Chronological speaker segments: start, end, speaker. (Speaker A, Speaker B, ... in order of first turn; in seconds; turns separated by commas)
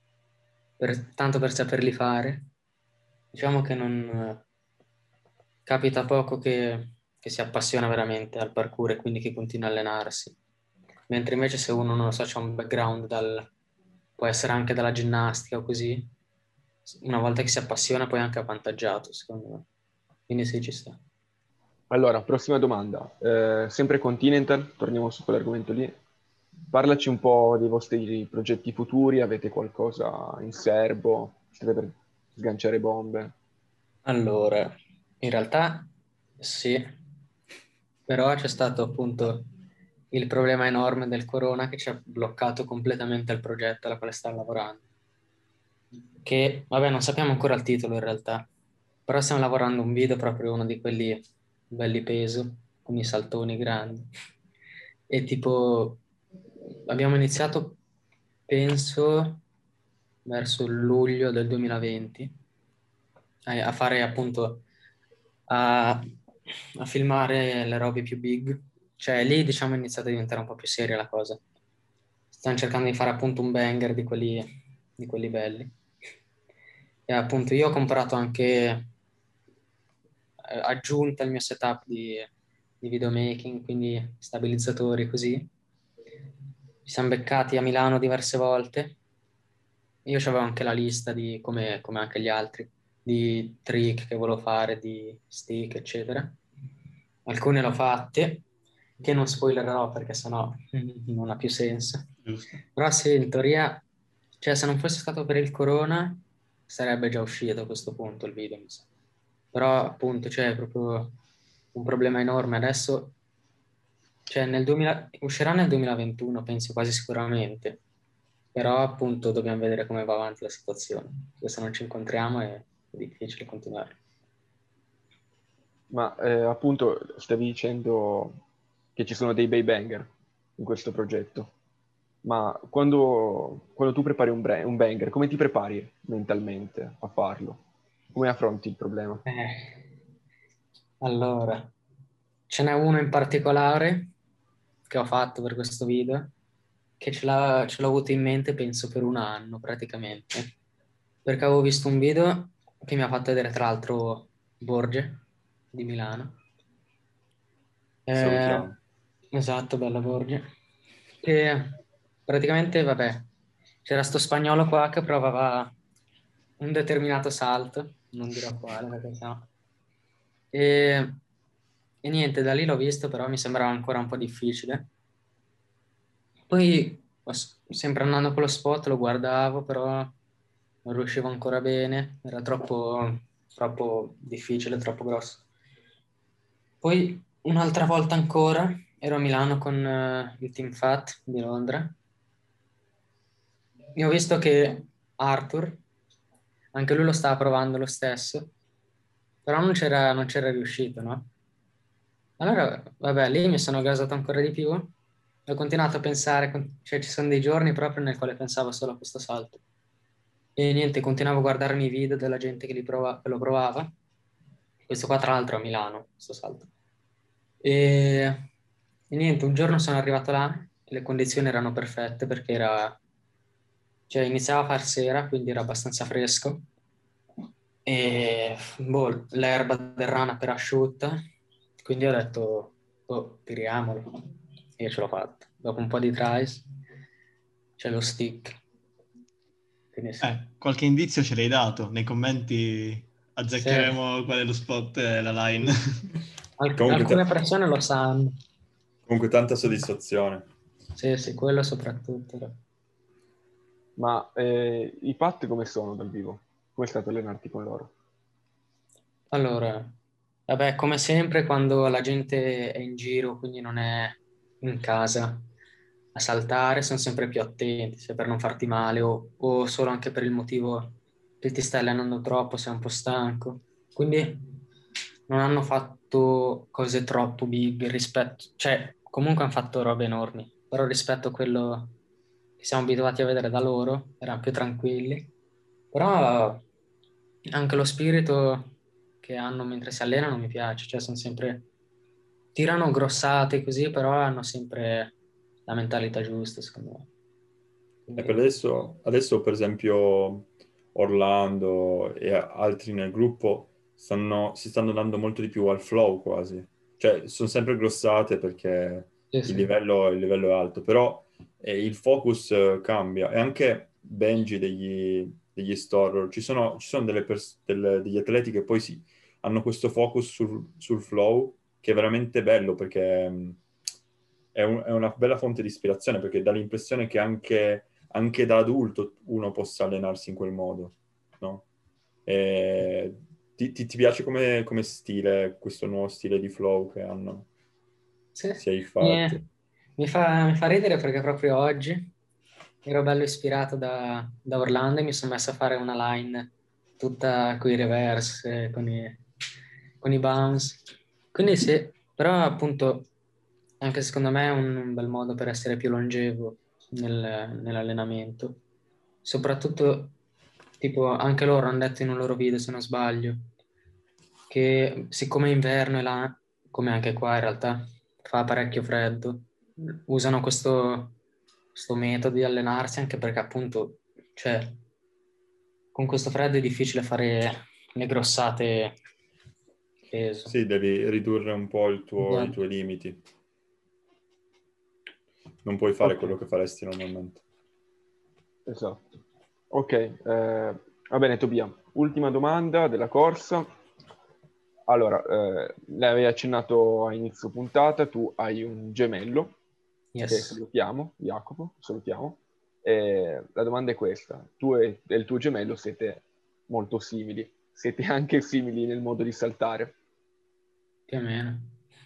Speaker A: 0.8-2.5, Speaker A: 3.3-4.4, Speaker A: 5.7-10.3, Speaker A: 11.1-13.5, Speaker A: 14.2-16.1, Speaker A: 16.9-19.6, Speaker A: 20.3-21.0, Speaker B: 21.9-26.0, Speaker B: 26.7-33.3, Speaker A: 34.0-36.8, Speaker A: 38.1-39.5, Speaker A: 40.1-44.8, Speaker A: 46.2-48.5, Speaker A: 49.1-54.1, Speaker A: 55.1-56.0, Speaker A: 56.9-57.8, Speaker A: 58.5-59.4, Speaker A: 60.2-62.3, Speaker A: 63.5-64.6, Speaker A: 65.5-66.1, Speaker A: 66.8-71.4, Speaker A: 72.3-74.4, Speaker A: 75.0-75.7, Speaker A: 77.1-78.9, Speaker A: 80.5-82.3, Speaker A: 82.8-85.5, Speaker A: 86.8-88.9, Speaker A: 90.0-96.4, Speaker A: 97.2-98.4, Speaker A: 99.0-102.1, Speaker C: 102.2-102.6, Speaker A: 102.8-103.8, Speaker A: 104.4-108.8, Speaker A: 109.5-111.2, Speaker A: 111.7-113.1, Speaker A: 114.3-117.8, Speaker A: 118.5-124.0, Speaker B: 125.9-128.4, Speaker B: 128.9-131.5, Speaker B: 132.2-137.6, Speaker B: 138.1-139.2, Speaker A: 139.2-139.8, Speaker A: 141.0-141.7, Speaker A: 142.5-144.1, Speaker A: 144.9-146.3, Speaker A: 147.0-150.5, Speaker A: 151.2-156.4, Speaker A: 158.1-158.7, Speaker D: 158.1-158.8, Speaker A: 159.3-160.4, Speaker A: 161.2-163.2, Speaker A: 163.8-165.7, Speaker A: 166.6-169.4, Speaker A: 170.5-171.2, Speaker A: 172.0-174.9, Speaker A: 176.5-180.1, Speaker A: 180.8-185.4, Speaker A: 186.8-191.9, Speaker A: 193.9-195.8, Speaker A: 196.7-198.5, Speaker A: 199.4-201.3, Speaker A: 202.4-204.9, Speaker A: 205.5-209.6, Speaker A: 210.6-213.9, Speaker A: 214.9-216.7, Speaker A: 217.6-218.4, Speaker A: 219.1-223.0, Speaker A: 224.1-226.6, Speaker A: 227.8-231.2, Speaker A: 231.8-234.2, Speaker A: 234.8-236.6, Speaker A: 237.8-238.6, Speaker A: 239.9-240.3, Speaker C: 240.2-246.1, Speaker A: 243.6-243.9, Speaker A: 246.6-248.4, Speaker D: 246.8-247.2, Speaker D: 249.0-250.5, Speaker A: 250.9-252.6, Speaker B: 253.9-257.9, Speaker A: 259.3-259.9, Speaker A: 260.5-265.4, Speaker A: 266.1-274.4, Speaker A: 275.3-281.9, Speaker A: 282.6-285.3, Speaker A: 285.9-286.6, Speaker A: 287.5-291.6, Speaker A: 292.5-295.1, Speaker A: 295.7-297.1, Speaker A: 298.1-298.4, Speaker D: 298.2-323.6, Speaker A: 309.3-309.7, Speaker D: 324.5-331.6, Speaker D: 332.2-337.5, Speaker A: 338.3-339.4, Speaker D: 338.6-339.4, Speaker A: 340.0-342.1, Speaker A: 342.8-349.2, Speaker A: 350.0-350.8, Speaker A: 351.3-353.1, Speaker A: 353.8-358.6, Speaker A: 359.2-360.1, Speaker A: 360.8-363.5, Speaker A: 364.5-371.1, Speaker A: 371.7-374.8, Speaker A: 375.9-378.9, Speaker A: 380.1-380.5, Speaker D: 380.5-383.2, Speaker A: 382.2-382.6, Speaker D: 385.6-387.4, Speaker B: 388.7-389.2, Speaker B: 389.7-393.7, Speaker B: 394.9-399.5, Speaker A: 400.1-400.6, Speaker B: 400.3-409.9, Speaker A: 411.1-411.7